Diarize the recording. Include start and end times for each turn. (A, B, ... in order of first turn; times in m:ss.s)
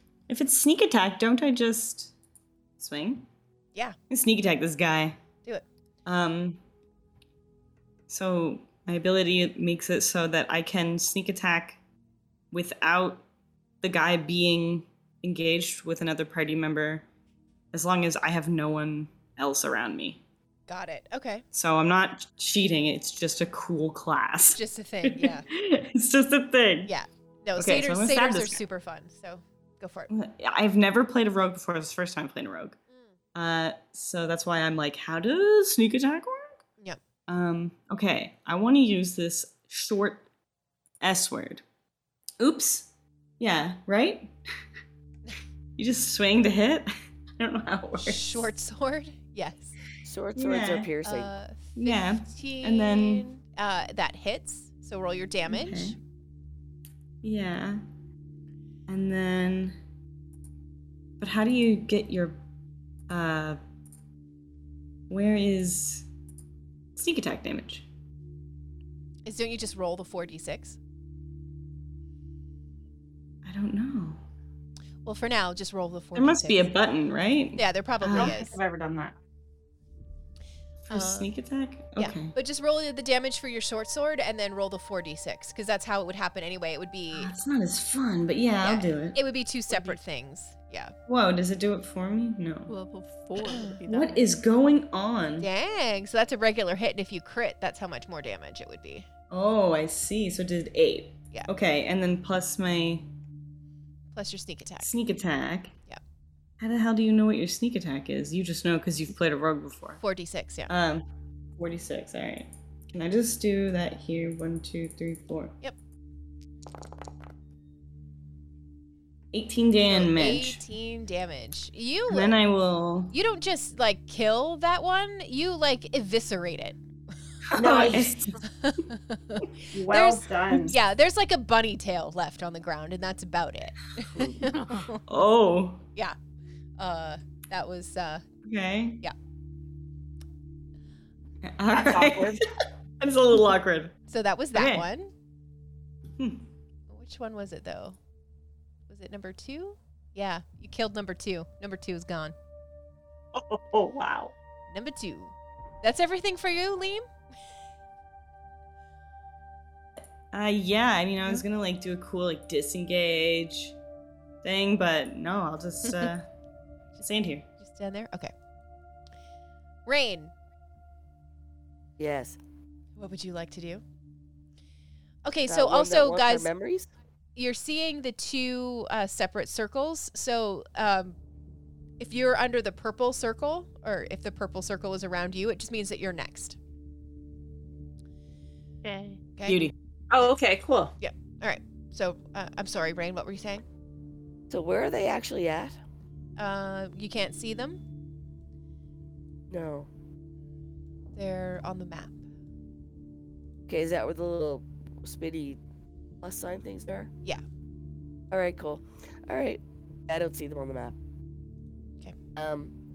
0:00.3-0:02.1 A
0:02.8-0:03.2 A
0:04.1-0:05.2 A
0:06.0-0:06.6 A
0:08.1-0:11.8 A
0:12.5-0:13.2 A
0:13.8-0:17.0 A
0:17.7-0:20.2 A
0:20.7-0:21.4 B
0:21.5-0:26.9 A
0:24.5-0:25.4 B
0:26.8-0:30.1 B
0:27.6-0:28.6 A
0:30.1-0:32.8 A
0:33.3-0:36.6 A
0:37.3-0:40.2 A
0:41.0-0:41.6 A
0:42.4-0:44.3 A
0:45.8-0:48.5 A
0:48.0-0:49.8 B
0:50.0-0:51.3 C
0:50.3-0:50.9 A
0:51.0-0:56.0 B
0:51.8-0:53.2 A
0:55.5-0:56.0 A
0:57.2-0:57.8 A
0:58.9-0:59.8 A
1:01.2-1:02.4 A
1:03.1-1:03.6 A
1:05.1-1:06.0 A
1:07.0-1:07.8 A
1:09.2-1:10.8 B
1:13.4-1:14.2 A
1:15.0-1:16.7 B
1:16.2-1:18.3 A
1:17.6-1:18.5 B
1:18.1-1:19.2 D
1:20.9-1:21.3 B
1:20.9-1:22.3 A
1:22.0-1:27.3 B
1:27.1-1:29.2 A
1:28.6-1:30.9 B
1:29.7-1:30.0 E
1:31.1-1:32.7 A
1:32.7-1:34.3 E
1:33.4-1:33.8 B
1:33.9-1:35.5 A
1:35.4-1:39.1 B
1:39.3-1:43.1 A
1:44.1-1:44.9 B
1:44.8-1:45.8 A
1:46.6-1:50.0 A
1:50.0-1:50.7 B
1:50.7-1:51.0 A
1:51.6-1:55.5 A
1:59.3-2:00.6 A
1:59.8-2:02.3 B
2:02.1-2:03.1 A
2:03.1-2:06.8 B
2:07.5-2:08.3 A
2:07.5-2:08.4 D
2:08.5-2:15.0 B
2:09.7-2:10.8 D
2:14.5-2:14.9 E
2:15.1-2:15.8 A
2:16.8-2:18.2 B
2:18.4-2:19.0 A
2:21.4-2:22.4 A
2:21.7-2:22.5 D
2:23.0-2:23.9 A
2:24.1-2:25.1 B
2:24.5-2:24.8 A
2:26.2-2:26.4 A
2:26.9-2:28.0 B
2:28.9-2:32.3 B
2:33.3-2:34.3 D
2:34.7-2:37.0 B
2:40.3-2:43.7 A
2:44.4-2:46.3 A
2:47.0-2:47.4 A
2:47.6-2:48.3 B
2:49.8-2:50.3 B
2:52.0-2:52.4 C
2:53.0-2:53.8 B
2:55.2-2:56.5 B
2:55.5-2:56.9 C
2:57.4-3:01.2 B
3:02.0-3:06.6 B
3:08.8-3:09.2 E
3:09.4-3:09.7 B
3:09.4-3:09.7 A
3:10.1-3:11.0 D
3:11.0-3:13.6 B
3:14.5-3:15.8 C
3:16.4-3:17.8 B
3:19.5-3:19.9 C
3:21.1-3:22.2 B
3:23.7-3:25.6 C
3:26.2-3:27.1 C
3:28.3-3:31.0 C
3:32.4-3:32.7 C